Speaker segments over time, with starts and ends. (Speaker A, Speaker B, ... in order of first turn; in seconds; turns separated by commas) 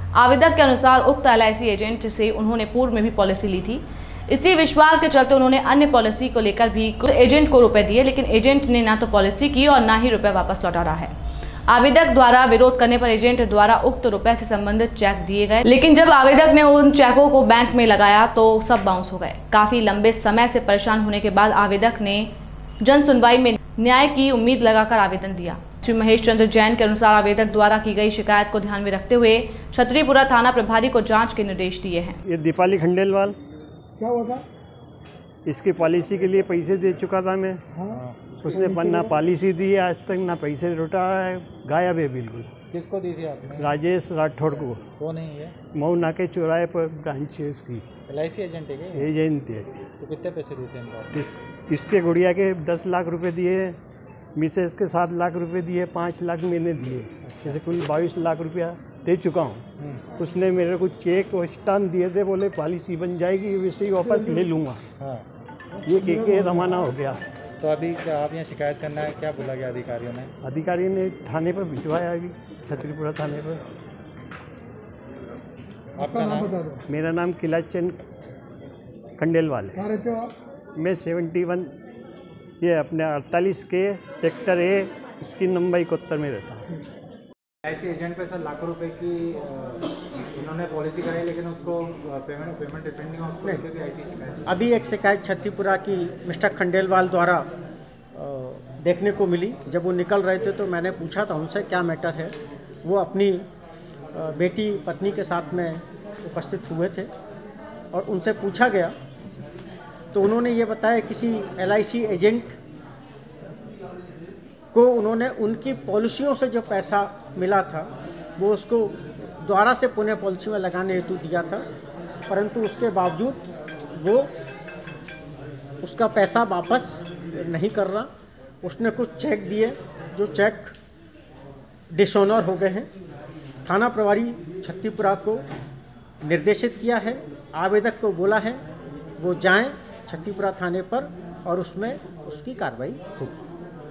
Speaker A: 0.1-11.1, Speaker A: 11.7-32.2, Speaker B: 32.3-33.4, Speaker C: 34.0-34.4, Speaker B: 35.5-37.6, Speaker C: 37.7-39.1, Speaker D: 37.9-38.2, Speaker B: 38.4-42.5, Speaker D: 42.7-43.7, Speaker B: 43.6-44.8, Speaker D: 45.0-45.5, Speaker B: 45.7-47.8, Speaker D: 48.1-49.1, Speaker B: 48.9-49.8, Speaker D: 50.0-51.1, Speaker B: 51.1-53.8, Speaker B: 54.4-59.6, Speaker D: 57.2-57.6, Speaker D: 59.8-60.0, Speaker B: 60.2-64.8, Speaker C: 64.1-64.4, Speaker D: 65.0-65.2, Speaker B: 65.8-67.2, Speaker D: 67.6-70.3, Speaker B: 70.4-73.6, Speaker D: 76.0-76.6, Speaker C: 76.0-76.8, Speaker B: 76.9-78.0, Speaker B: 79.2-79.8, Speaker C: 79.8-80.3, Speaker B: 80.8-81.7, Speaker B: 82.6-86.7, Speaker D: 87.6-94.6, Speaker E: 94.5-97.5, Speaker E: 98.1-103.4, Speaker E: 104.1-107.1, Speaker E: 107.9-108.9, Speaker E: 110.1-112.6, Speaker E: 114.7-121.7, Speaker E: 122.3-123.4, Speaker E: 124.0-124.3, Speaker E: 125.8-128.1, Speaker E: 128.6-130.7, Speaker E: 131.9-132.9, Speaker E: 133.6-135.4, Speaker E: 136.2-138.6, Speaker E: 139.2-143.4